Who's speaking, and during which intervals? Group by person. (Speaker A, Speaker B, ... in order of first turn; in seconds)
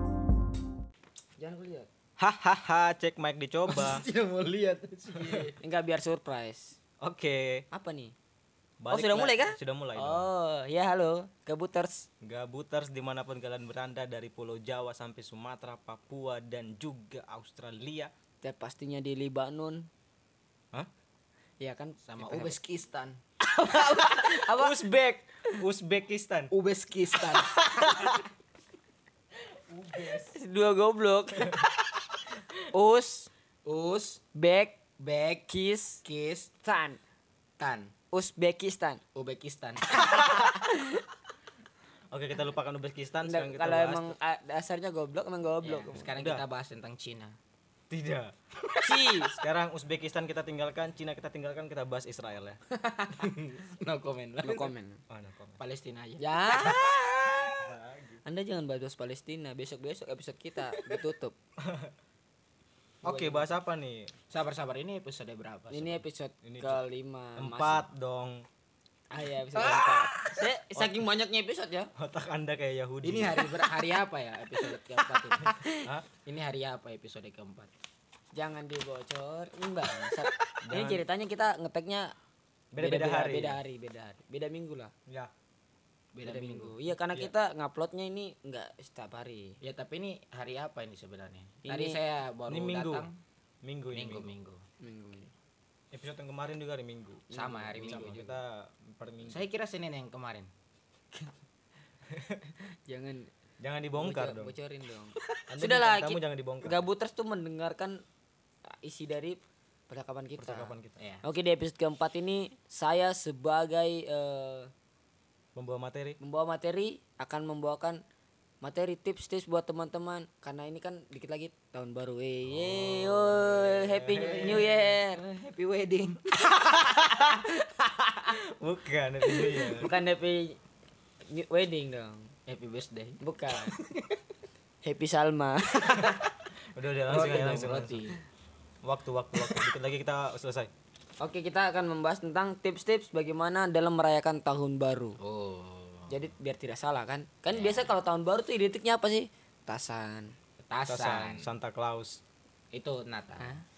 Speaker A: 1.4-1.9, 5.6-6.8, 7.7-8.1, 8.9-12.1, 18.4-19.9, 21.6-22.5, 23.4-24.8, 27.5-28.1, 30.3-31.6, 32.7-33.3, 34.3-34.8, 35.5-36.0, 36.6-37.0, 38.1-39.0, 40.0-41.0, 43.2-46.1, 48.8-49.4, 52.7-53.3, 54.4-55.0, 56.2-57.5, 58.2-61.4, 65.7-67.9, 69.1-71.9, 75.3-75.8, 78.3-82.1, 82.8-84.9, 86.2-89.5, 91.6-92.0, 94.8-95.3, 97.3-98.3, 102.9-103.3, 104.0-108.0, 108.7-114.7, 116.2-118.0, 118.6-125.2, 126.5-128.3, 129.8-130.6, 131.3-132.3, 133.2-133.7, 134.8-136.2, 141.2-145.2, 146.1-150.3
Speaker B: 2.2-4.0, 5.1-5.5, 7.0-7.6, 8.8-10.3, 12.2-18.1, 24.0-26.5, 27.8-28.2, 29.7-30.3, 40.1-40.4, 42.1-44.1, 46.1-46.4, 47.9-48.3, 49.3-52.6, 55.1-55.6, 57.5-58.2, 61.6-61.9, 63.0-64.1, 66.4-66.8, 67.4-68.4, 70.7-71.1, 72.0-73.5, 75.7-76.1, 80.6-81.0, 82.7-83.6, 92.5-93.1, 93.6-94.3, 95.9-99.5, 102.2-102.5, 103.6-104.5, 105.5-106.8, 110.4-111.0, 115.5-116.2, 122.5-124.7, 126.8-127.3, 128.3-129.9, 136.7-138.1, 138.8-140.7, 150.9-152.2
Speaker C: 3.7-5.6, 22.0-23.2, 26.5-27.5, 33.6-34.2, 35.0-35.5, 36.0-36.5, 37.6-37.9, 39.1-40.0, 45.6-47.4, 48.8-49.1, 53.1-54.7, 55.6-57.4, 63.0-63.5, 64.3-66.0, 69.5-70.4, 73.0-75.5, 76.2-77.7, 86.1-86.8, 89.6-93.2, 93.9-94.6, 97.3-98.2, 99.2-100.5, 111.0-111.2, 124.1-126.2, 132.4-134.2, 137.1-138.2, 145.2-146.2, 147.5-147.9, 150.6-151.5, 152.7-153.6